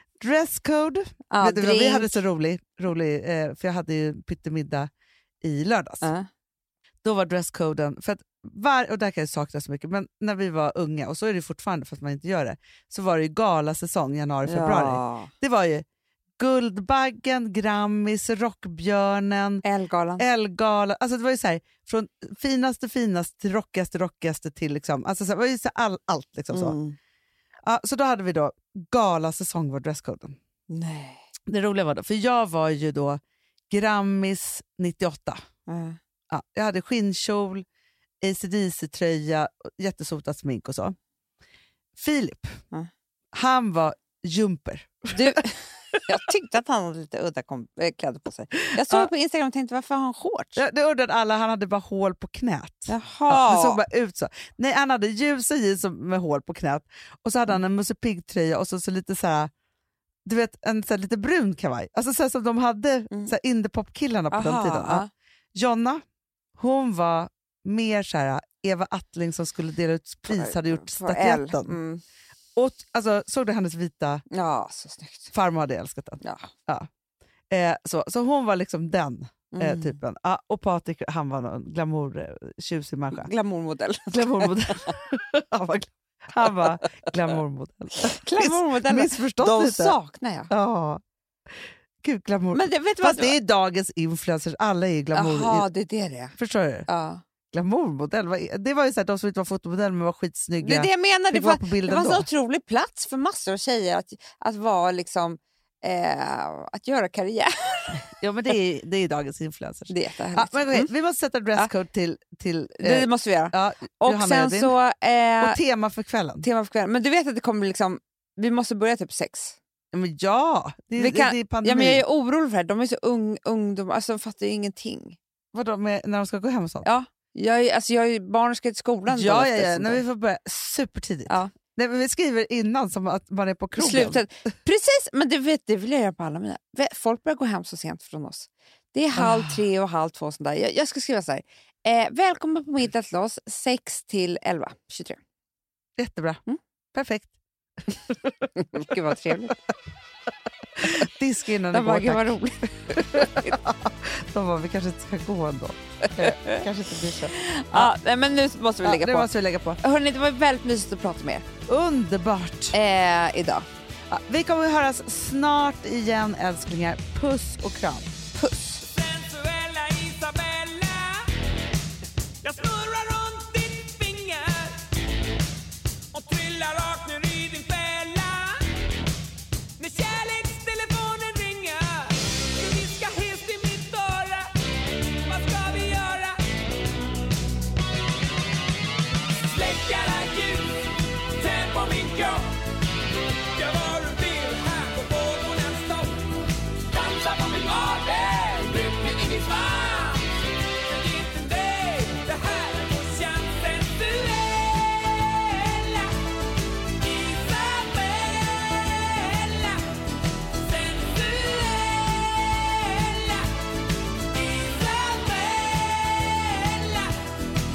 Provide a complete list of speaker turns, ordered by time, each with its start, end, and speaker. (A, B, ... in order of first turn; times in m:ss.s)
0:00.2-0:04.9 A
0:01.3-0:02.2 B
0:05.4-0:06.1 A
0:06.0-0:06.3 B
0:07.0-0:15.8 A
0:14.4-0:15.3 B
0:16.4-0:19.6 A
0:19.6-0:20.2 B
0:20.2-0:26.7 A
0:26.5-0:27.0 B
0:27.6-0:30.4 A
0:30.7-0:31.2 B
0:31.5-0:35.4 A
0:35.7-0:36.0 B
0:36.3-0:37.6 A
0:38.2-0:41.0 A
0:42.0-0:42.6 A
0:43.3-0:46.1 A
0:45.1-0:50.6 B
0:50.6-0:59.5 A
0:52.9-0:53.8 B
1:00.2-1:06.0 A
1:04.3-1:05.1 B
1:06.6-1:11.8 A
1:10.3-1:12.0 B
1:12.6-1:14.2 A
1:14.3-1:15.3 B
1:15.3-1:16.9 A
1:16.2-1:16.5 B
1:17.5-1:23.3 A
1:19.5-1:20.0 B
1:23.1-1:24.5 B
1:24.1-1:30.0 A
1:28.0-1:30.5 B
1:30.5-1:35.7 A
1:32.5-1:33.4 B
1:35.1-1:36.3 B
1:36.4-1:36.9 A
1:36.9-1:37.2 B
1:37.5-1:42.3 A
1:40.6-1:48.0 B
1:48.1-1:54.7 A
1:49.9-1:50.9 B
1:52.8-1:55.6 B
1:55.4-1:56.4 A
1:56.4-1:59.6 B
1:59.9-2:02.0 A
2:01.0-2:05.2 B
2:05.5-2:06.9 A
2:06.8-2:10.0 B
2:09.1-2:14.2 A
2:13.8-2:25.2 B
2:19.2-2:19.6 A
2:26.0-2:26.4 A
2:26.9-2:27.3 A
2:27.9-2:28.5 A
2:28.6-2:29.6 B
2:30.8-2:32.4 A
2:31.7-2:33.6 B
2:32.9-2:37.9 A
2:36.1-2:36.6 B
2:37.3-2:39.3 B
2:38.8-2:39.8 A
2:39.8-2:41.4 B
2:41.7-2:42.7 A
2:42.7-2:43.7 B
2:44.1-2:48.1 A
2:48.3-2:48.8 B
2:48.8-2:51.3 C
2:52.4-2:54.9 C
2:56.1-2:58.7 C
2:59.8-3:04.5 C
3:05.1-3:06.4 C
3:09.3-3:12.5 C
3:13.5-3:26.3 C
3:26.9-3:29.9 C
3:30.5-3:33.6 C
3:34.2-3:37.2 C